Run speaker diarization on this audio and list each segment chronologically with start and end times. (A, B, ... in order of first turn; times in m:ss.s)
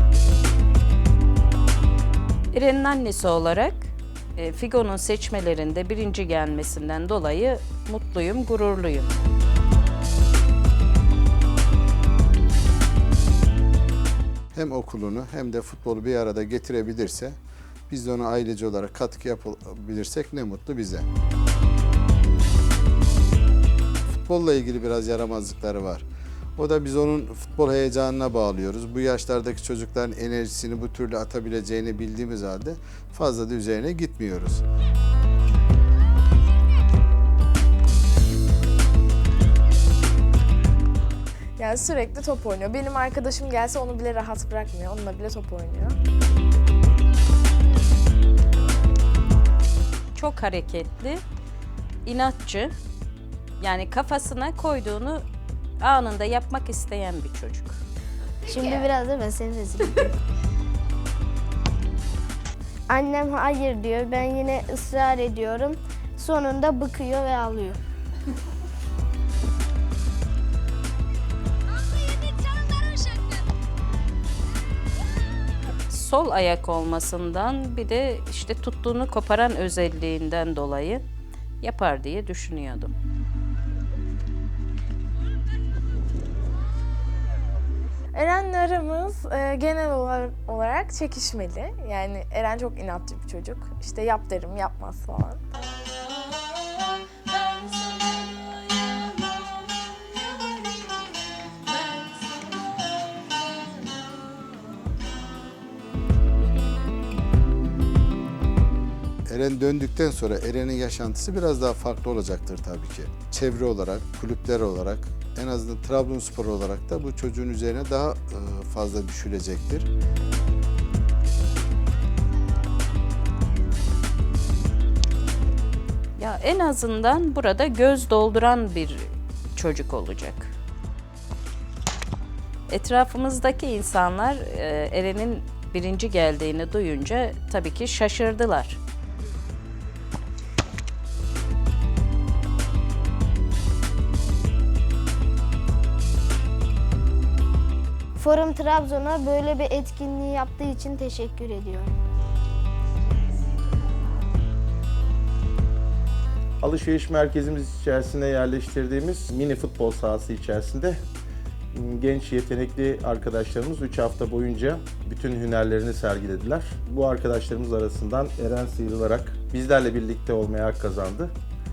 0:02.5-0:09.1 A
0:14.5-0:17.4 B
0:17.9-0:21.1 B
0:24.1-0:26.1 B
0:26.6-0:34.6 B
0:41.6-0:46.0 C
0:50.1-0:51.2 A
0:52.0-0:52.7 A
0:53.6-0:55.2 A
0:55.8-0:57.8 A
0:58.5-1:00.2 D
1:02.9-1:07.8 D
1:15.9-1:21.0 A
1:21.6-1:22.9 A
1:28.1-1:35.4 C
1:49.3-1:59.9 B
2:06.2-2:10.5 A
2:12.7-2:18.8 A
2:28.2-2:31.9 D
2:36.6-2:41.0 E
2:41.7-2:51.3 E